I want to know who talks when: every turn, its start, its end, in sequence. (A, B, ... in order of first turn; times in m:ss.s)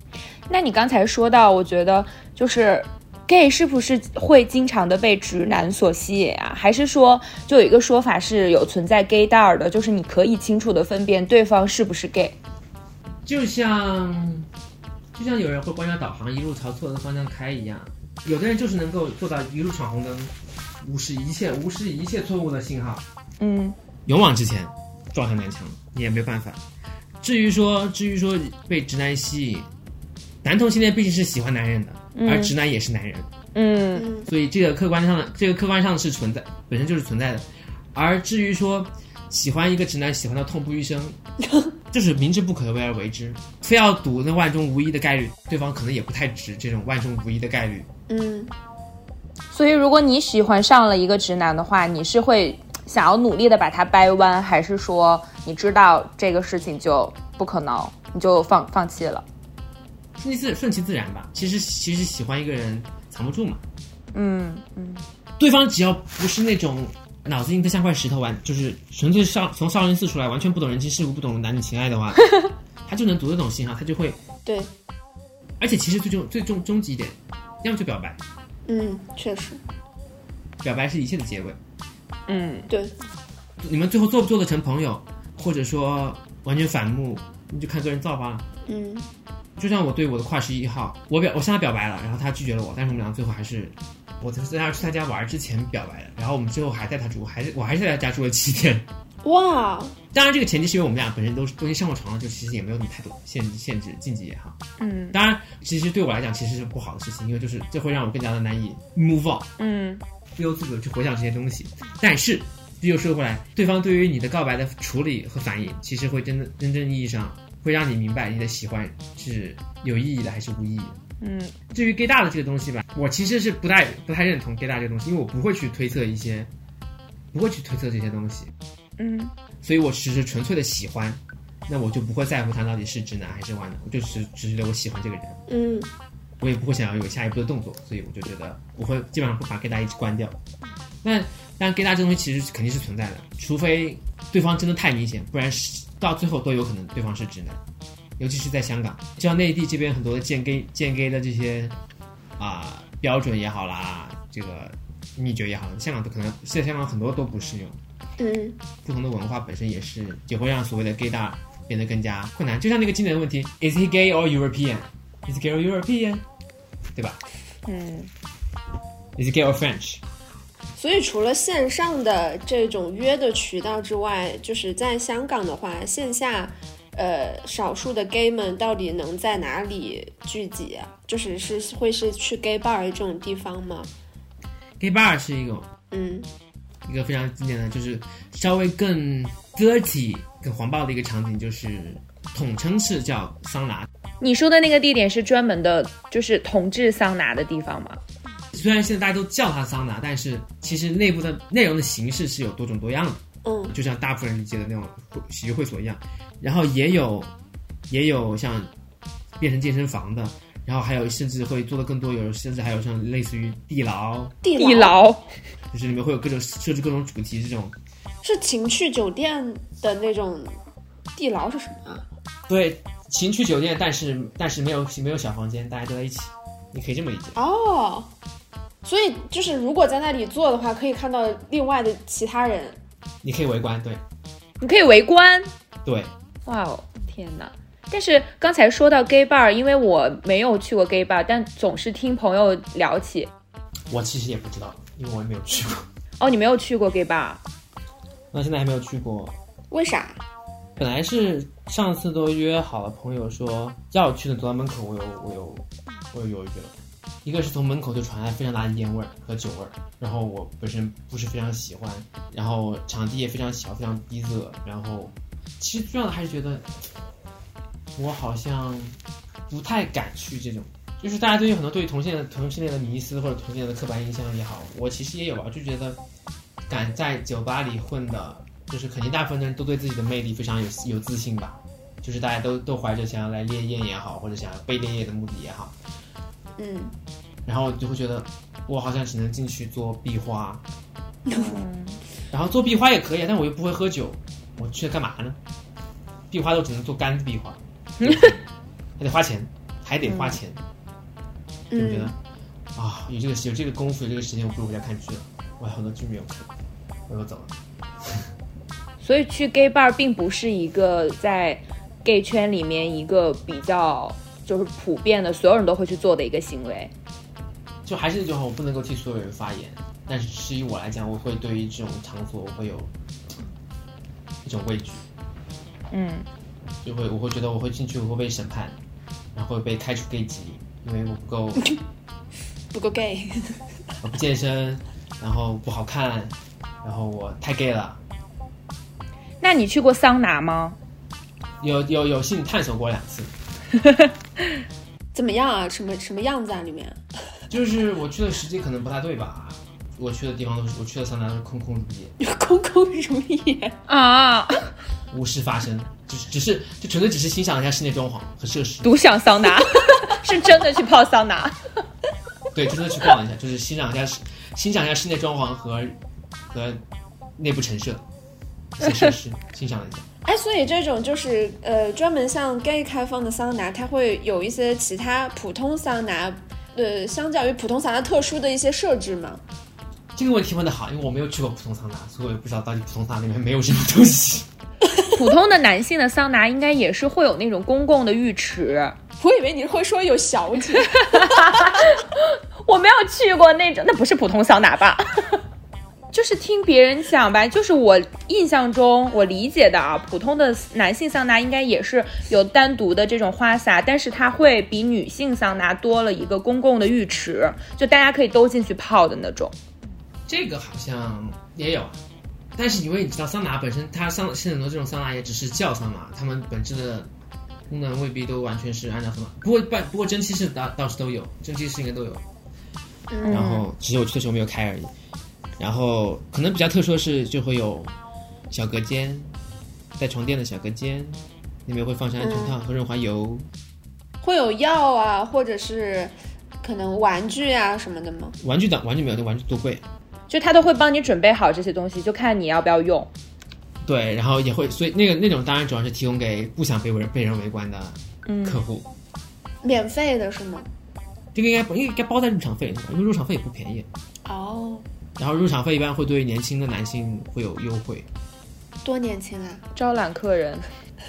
0:00.5-0:12.4 A
0:13.2-0:14.5 B
0:15.1-0:23.0 B
0:23.4-0:23.8 A
0:24.1-0:26.6 B
0:27.2-0:29.7 B
0:30.4-0:33.3 B
0:32.2-0:32.5 A
0:33.6-0:34.1 A
0:34.0-0:34.3 C
0:34.3-0:41.2 B
0:41.4-0:41.7 C
0:41.9-0:47.9 B
0:48.1-0:48.5 C
0:49.5-0:59.2 A
1:00.2-1:03.6 B
1:04.1-1:05.0 A
1:05.4-1:14.2 B
1:14.4-1:14.7 C
1:15.6-1:18.2 B
1:18.7-1:19.6 C
1:20.6-1:21.6 B
1:22.3-1:22.7 A
1:22.7-1:22.9 C
1:23.6-1:28.5 B
1:28.7-1:29.1 C
1:29.6-1:38.9 B
1:39.2-1:40.0 C
1:40.1-1:44.6 B
1:44.8-1:45.2 A
1:45.1-1:49.5 B
1:49.6-1:50.0 A
1:50.4-2:01.0 B
2:01.2-2:01.6 A
2:01.7-2:06.5 B
2:07.3-2:08.5 B
2:09.0-2:09.3 A
2:09.6-2:15.4 B
2:15.5-2:15.9 C
2:16.4-2:20.4 B
2:21.0-2:27.6 B
2:28.2-2:31.8 B
2:32.4-2:37.8 B
2:38.2-2:38.6 C
2:38.8-2:46.2 B
2:47.0-2:47.2 B
2:47.7-2:48.1 A
2:49.2-2:50.0 B
2:50.8-3:03.9 C
3:04.8-3:05.7 B
3:05.9-3:06.3 C
3:06.9-3:13.9 B
3:14.2-3:18.0 A
3:18.5-3:27.3 B
3:23.4-3:23.8 C
3:27.9-3:28.7 B
3:29.4-3:34.4 B
3:34.4-3:35.0 C
3:34.6-3:35.3 A
3:35.7-3:37.8 B
3:38.2-3:40.6 C
3:41.2-3:42.0 C
3:42.5-3:47.4 B
3:47.4-3:48.1 C
3:48.8-3:52.8 C
3:53.2-3:54.0 B
3:54.6-3:55.5 A
3:55.8-3:56.1 B
3:56.5-4:03.3 A
4:03.9-4:05.9 B
4:06.2-4:07.4 A
4:08.3-4:09.4 B
4:09.7-4:10.2 C
4:10.8-4:16.7 B
4:17.2-4:26.7 B
4:28.0-4:29.0 B
4:29.5-4:36.0 B
4:36.7-4:45.8 B
4:46.6-4:46.9 C
4:47.5-4:50.6 B
4:51.3-4:51.6 C
4:51.3-4:52.0 A
4:52.3-4:55.4 B
4:56.3-4:58.4 B
4:58.0-4:58.3 A
4:59.0-5:00.6 B
5:00.0-5:00.4 A
5:01.7-5:02.1 C
5:01.8-5:02.2 B
5:02.8-5:06.5 B
5:07.1-5:08.2 B
5:09.0-5:16.9 A
5:17.8-5:22.9 B
5:24.4-5:25.0 B
5:25.9-5:26.3 A
5:26.8-5:28.8 B
5:29.4-5:31.7 B
5:32.7-5:33.6 C
5:34.0-5:38.0 B
5:39.4-5:40.8 A
5:41.6-5:43.3 B
5:45.1-5:47.0 C
5:47.5-5:52.1 B
5:52.2-5:53.8 C
5:53.9-5:54.7 A
5:55.1-5:58.9 B
5:58.8-6:01.6 A
6:02.5-6:06.0 B
6:06.5-6:06.8 B
6:07.4-6:08.0 B
6:08.8-6:10.1 B
6:10.2-6:19.4 C
6:20.2-6:24.5 B
6:25.1-6:29.0 A
6:29.2-6:31.8 C
6:30.7-6:35.4 A
6:36.1-6:49.5 A
6:50.3-6:52.0 B
6:52.6-6:57.1 B
6:57.7-7:02.2 B
7:03.1-7:03.5 C
7:03.2-7:03.7 A
7:03.3-7:04.9 B
7:05.6-7:07.9 B
7:08.5-7:09.4 B
7:10.0-7:13.5 B
7:12.2-7:12.6 C
7:14.2-7:18.4 C
7:18.4-7:19.8 B
7:20.3-7:23.1 A
7:23.8-7:28.9 B
7:28.3-7:28.6 A
7:29.6-7:30.7 C
7:31.3-7:33.9 B
7:34.2-7:34.8 C
7:35.2-7:38.1 B
7:38.8-7:39.6 C
7:39.8-7:40.7 A